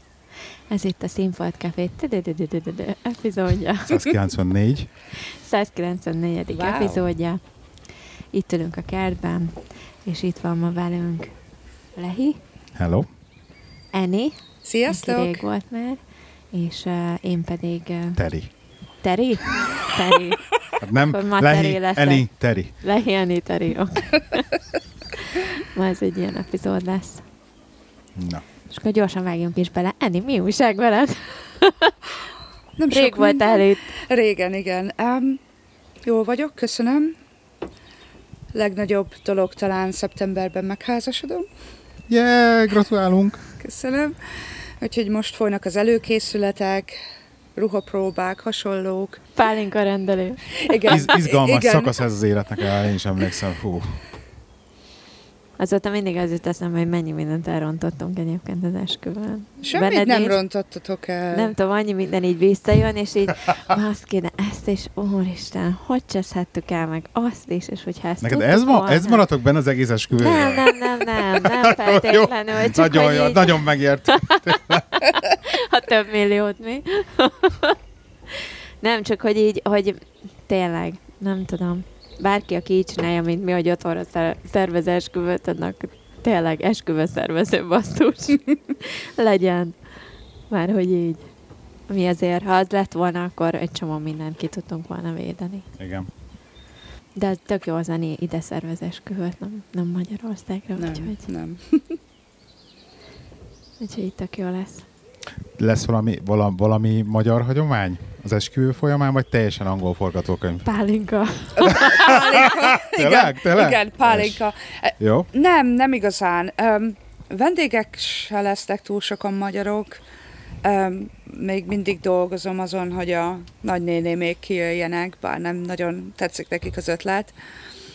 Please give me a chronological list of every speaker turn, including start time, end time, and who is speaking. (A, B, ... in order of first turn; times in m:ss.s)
0:00.7-0:04.0 A
0:03.9-0:04.9 B
0:05.2-0:07.4 A
0:06.5-0:07.0 C
0:08.3-0:11.3 A
0:12.0-0:12.4 A
0:12.7-0:13.1 B
0:13.9-0:16.0 A
0:14.6-0:15.4 C
0:16.5-0:18.2 A
0:18.2-0:18.5 B
0:19.0-0:20.4 A
0:20.8-0:22.7 B
0:21.0-0:22.3 A
0:22.8-0:24.5 A
0:25.2-0:27.2 A
0:28.1-0:28.4 B
0:28.7-0:32.0 A
0:32.8-0:35.4 C
0:32.9-0:33.9 A
0:36.0-0:37.2 C
0:38.5-0:41.5 C
0:42.1-0:43.4 B
0:43.6-0:44.2 C
0:44.8-0:47.0 C
0:47.6-0:49.2 C
0:49.4-0:50.9 A
0:50.6-0:52.0 C
0:50.9-0:54.0 B
0:55.6-1:00.4 A
0:59.6-1:01.5 C
1:01.3-1:09.2 A
1:08.2-1:15.0 B
1:10.1-1:17.8 A
1:18.3-1:29.8 A
1:30.5-1:31.3 A
1:31.9-1:35.7 A
1:35.8-1:36.1 B
1:37.2-1:41.2 A
1:40.8-1:41.8 C
1:43.8-1:44.8 A
1:45.6-1:50.7 B
1:50.6-1:52.1 A
1:51.6-2:00.0 C
1:51.7-1:54.4 B
1:55.0-1:55.3 B
2:00.6-2:07.3 C